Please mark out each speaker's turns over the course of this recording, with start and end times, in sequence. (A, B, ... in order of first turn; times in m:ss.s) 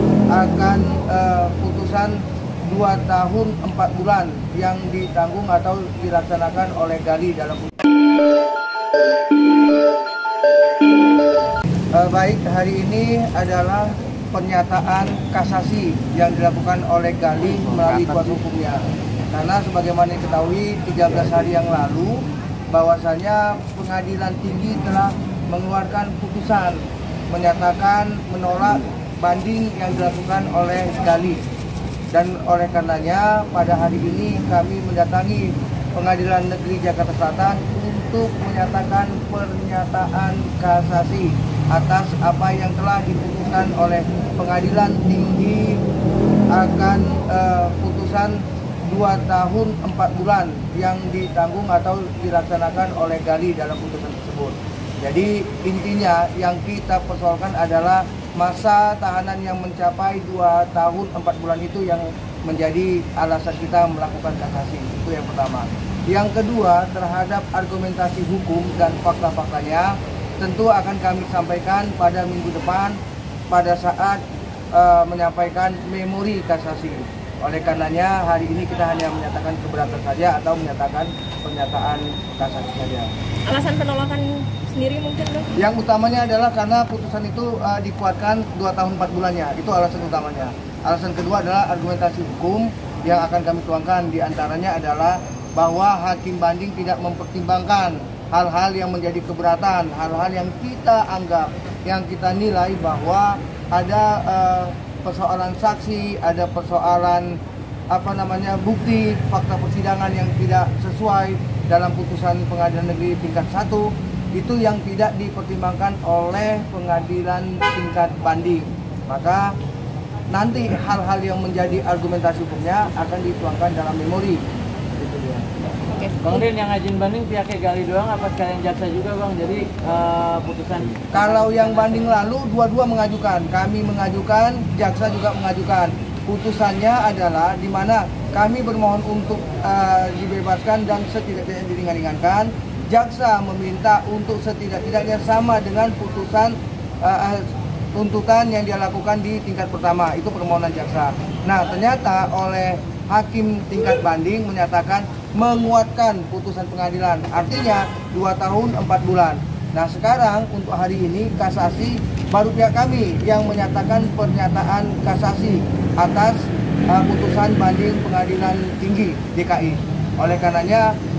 0:00.3-0:07.8 A
0:11.9-0:31.4 A
0:17.8-0:18.4 B
0:32.1-0:45.8 A
0:46.5-1:13.0 A
1:13.5-1:14.2 A
1:14.7-1:23.1 A
1:23.5-1:25.5 C
1:25.6-1:47.4 A
1:47.9-1:59.5 A
2:00.3-2:04.4 A
2:05.0-2:05.4 B
2:05.9-2:06.3 C
2:06.2-2:12.2 B
2:11.1-2:50.9 A